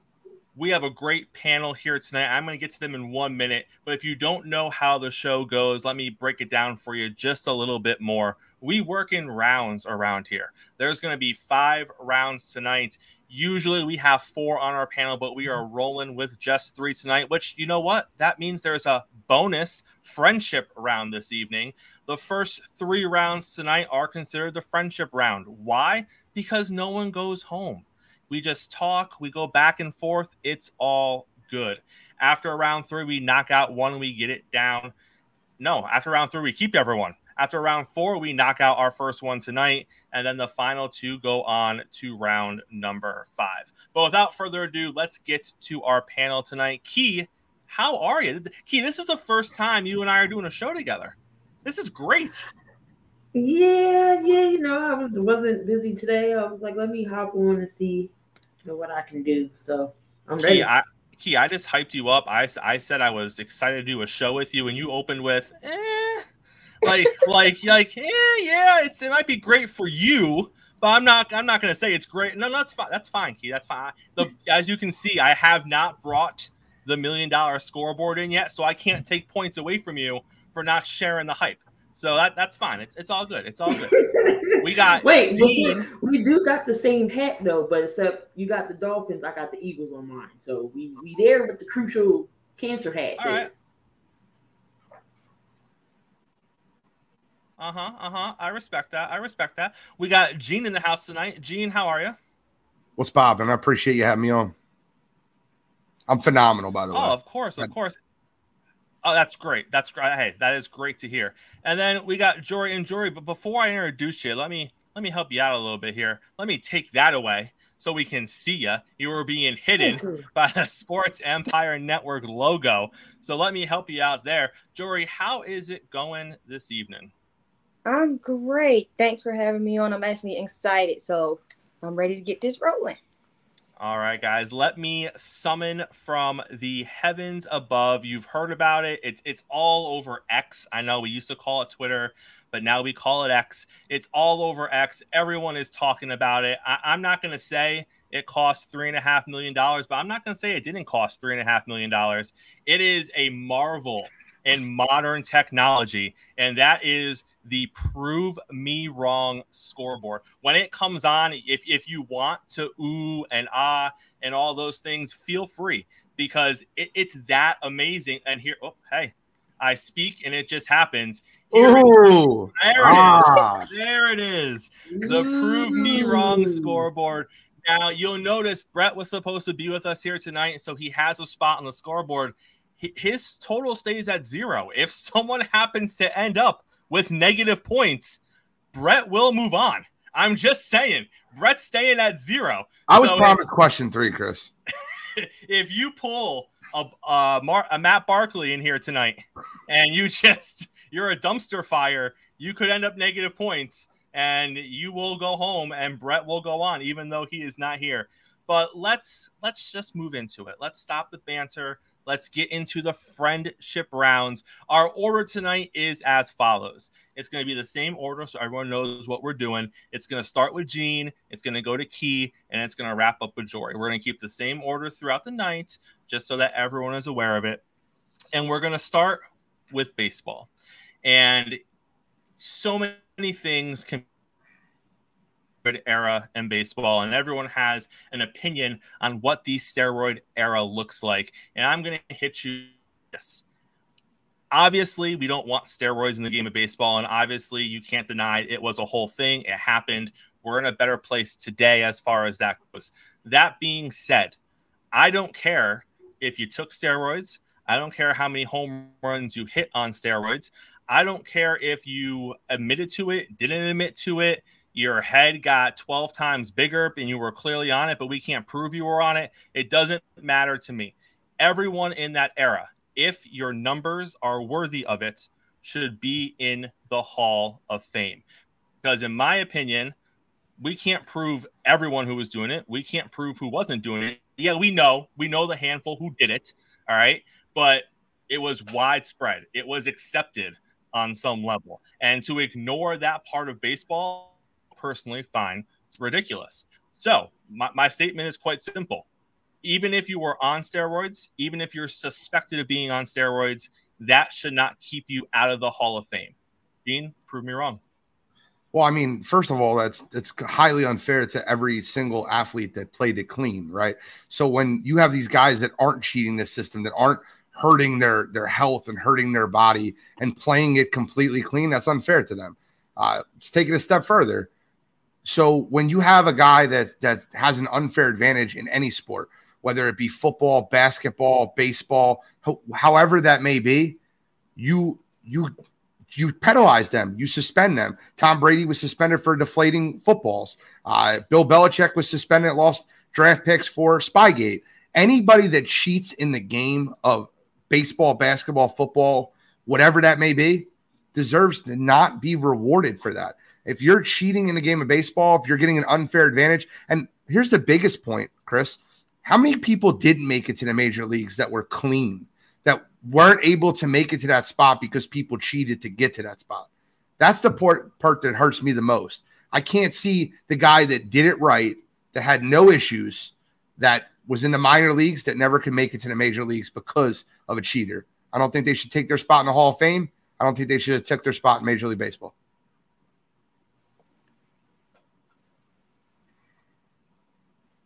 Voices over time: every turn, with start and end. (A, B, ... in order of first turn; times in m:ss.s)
0:00.6-0:34.9 A
0:35.6-0:52.5 A
0:53.3-0:58.1 B
0:58.6-1:00.7 B
1:00.4-1:06.2 A
1:06.8-1:25.8 A
1:23.8-1:33.5 B
1:33.2-1:33.5 A
1:37.6-1:42.2 A
1:43.0-1:44.5 C
1:46.1-1:47.7 C
1:46.9-1:48.0 A
1:49.0-2:07.1 A
1:59.8-2:00.2 B
2:07.8-2:13.0 D
2:13.8-2:52.0 A
2:51.5-2:53.7 C
2:52.6-3:08.2 A
2:54.9-2:56.8 B
3:08.7-3:13.4 A
3:12.9-3:14.5 C
3:15.2-3:47.6 A
3:48.3-3:50.5 A
3:51.0-3:51.6 A
3:52.4-3:54.0 A
3:55.6-4:03.4 A
4:04.5-4:14.4 A
4:14.9-4:38.2 A
4:38.8-4:40.0 A
4:40.6-4:59.0 A
4:59.6-5:07.8 A
5:08.7-5:24.5 C
5:25.2-5:34.0 C
5:34.6-5:35.5 C
5:36.1-6:06.7 C
6:07.2-6:22.3 C